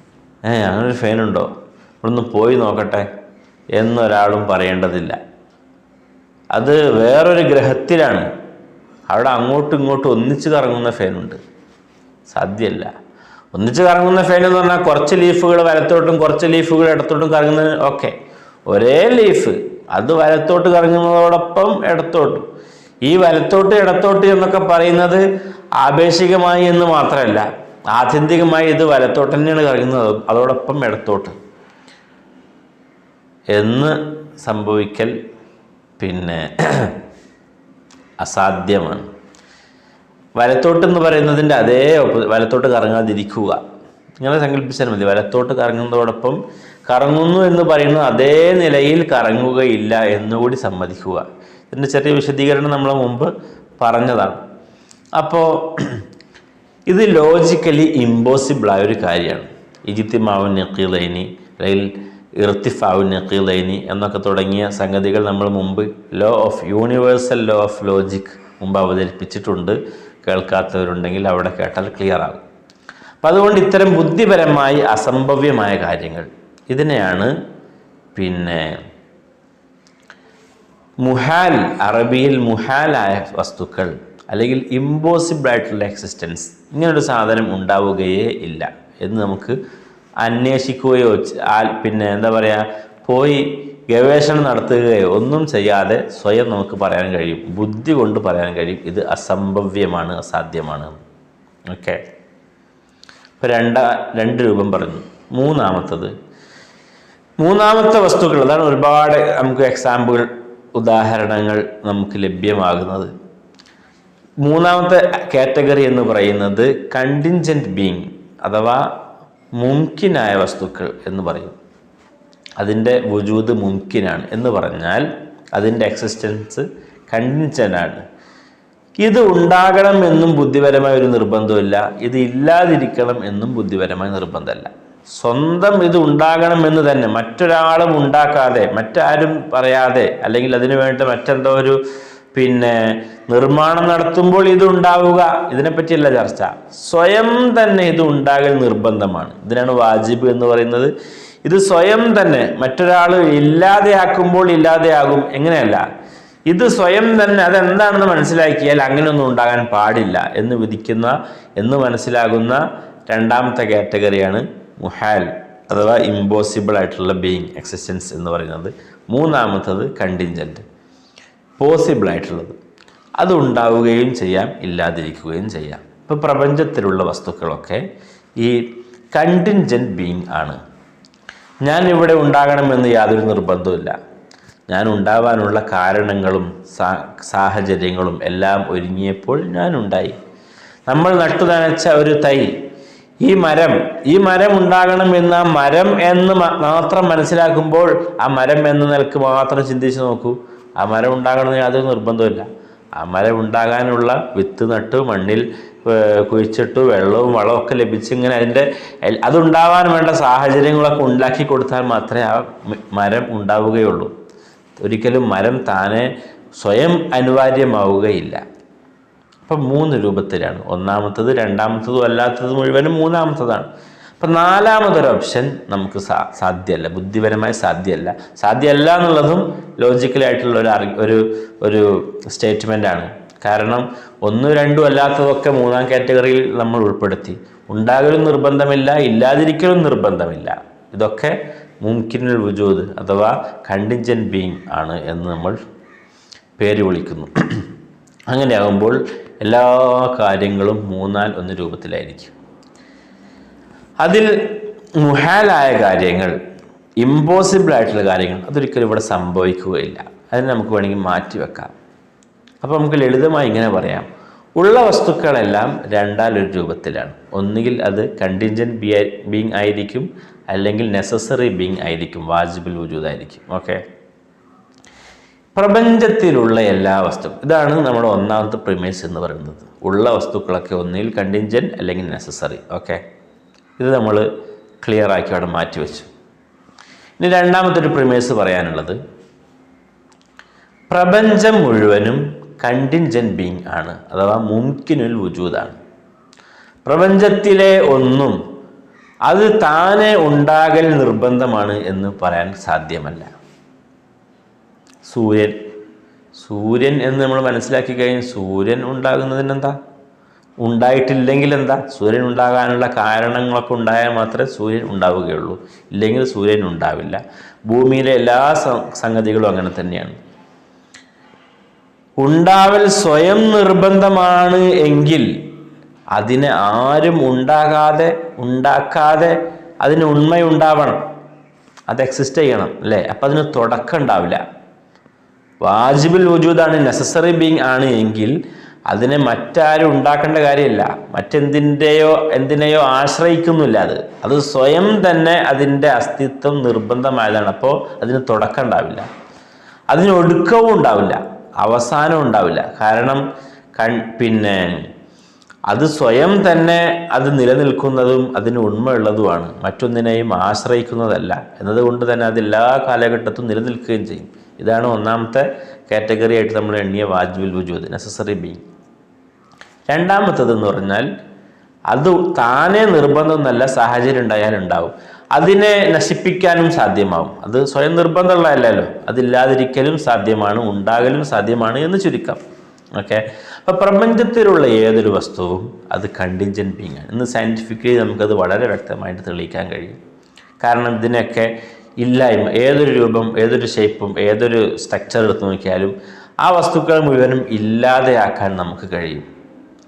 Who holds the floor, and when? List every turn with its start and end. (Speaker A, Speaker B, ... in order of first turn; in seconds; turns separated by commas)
Speaker A: 0.4-1.5, Speaker A: 2.0-3.0, Speaker A: 3.8-5.2, Speaker A: 6.5-8.3, Speaker A: 9.1-11.4, Speaker A: 12.3-12.9, Speaker A: 13.5-18.1, Speaker A: 18.7-22.4, Speaker A: 23.0-25.2, Speaker A: 25.8-31.4, Speaker A: 33.5-35.1, Speaker A: 36.0-37.0, Speaker A: 38.2-39.0, Speaker A: 40.4-43.6, Speaker A: 44.2-54.4, Speaker A: 55.2-56.0, Speaker A: 56.9-72.4, Speaker A: 73.2-77.3, Speaker A: 78.1-78.7, Speaker A: 81.0-89.5, Speaker A: 90.2-101.0, Speaker A: 101.7-102.0, Speaker A: 103.4-106.1, Speaker A: 107.4-113.1, Speaker A: 114.4-118.8, Speaker A: 119.6-121.5, Speaker A: 122.6-128.0, Speaker A: 129.0-141.8, Speaker A: 142.3-150.9, Speaker A: 151.4-155.8, Speaker A: 156.5-170.6, Speaker A: 171.6-172.6, Speaker A: 173.2-177.8, Speaker A: 178.4-180.6, Speaker A: 181.6-183.9, Speaker A: 184.7-190.2, Speaker A: 190.9-192.5, Speaker A: 193.2-202.4, Speaker A: 203.0-214.1, Speaker A: 214.8-218.4, Speaker A: 219.4-223.7, Speaker A: 224.2-245.6, Speaker A: 246.6-247.7, Speaker A: 248.3-252.3, Speaker A: 254.0-256.3, Speaker A: 257.0-261.7, Speaker A: 262.6-264.1, Speaker A: 264.6-273.8, Speaker A: 275.5-283.0, Speaker A: 283.8-284.3, Speaker A: 284.8-286.1, Speaker A: 287.2-289.0, Speaker A: 290.9-295.8, Speaker A: 296.8-298.4, Speaker A: 299.2-303.3, Speaker A: 305.0-305.5, Speaker A: 306.4-309.7, Speaker A: 310.6-320.1, Speaker A: 322.2-325.3, Speaker A: 326.1-331.0, Speaker A: 331.9-334.4, Speaker A: 335.6-338.4, Speaker A: 338.9-349.1, Speaker A: 349.9-353.2, Speaker A: 353.8-354.9, Speaker A: 355.7-368.6, Speaker A: 369.9-371.1, Speaker A: 371.9-382.4, Speaker A: 382.9-390.0, Speaker A: 390.6-399.2